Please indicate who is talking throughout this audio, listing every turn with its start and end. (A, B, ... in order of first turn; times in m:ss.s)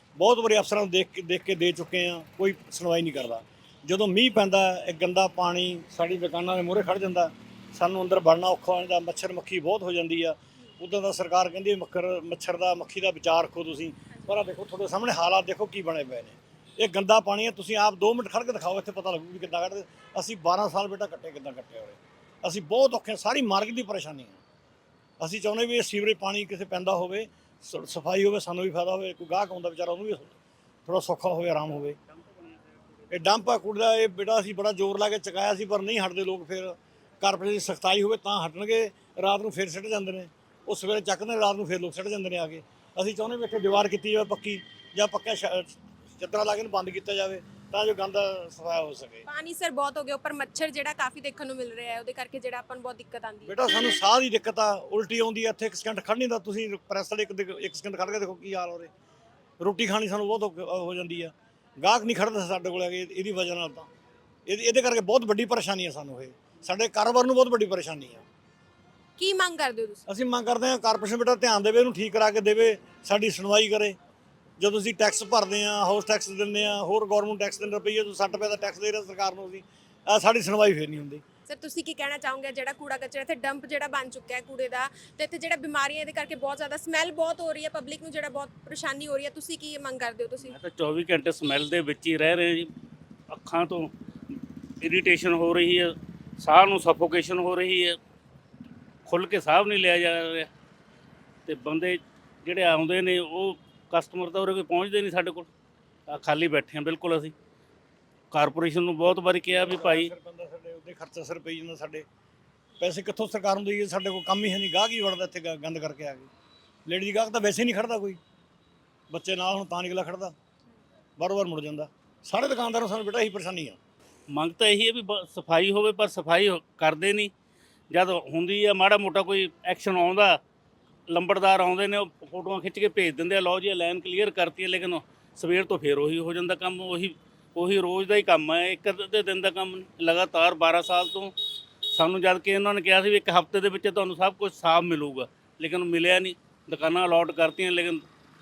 0:00.2-0:24.4 A
0:25.2-0:32.0 A
0:33.1-0:49.2 A
0:49.3-0:53.6 B
0:53.5-0:58.9 A
0:59.6-1:03.9 A
1:04.5-1:08.2 A
1:09.2-1:10.0 B
1:10.1-1:14.0 A
1:14.6-1:21.2 A
1:21.5-1:30.6 B
1:30.5-1:32.7 C
1:33.3-1:33.9 C
1:34.8-1:38.0 C
1:39.1-1:40.5 C
1:41.5-1:45.5 C
1:46.1-1:47.3 C
1:48.3-1:50.1 C
1:49.5-1:52.1 A
1:52.8-1:56.3 A
1:56.9-1:58.2 A
1:59.1-2:00.4 A
2:01.2-2:03.8 A
2:04.3-2:07.3 C
2:07.9-2:10.4 C
2:11.1-2:21.3 C
2:21.9-2:28.0 C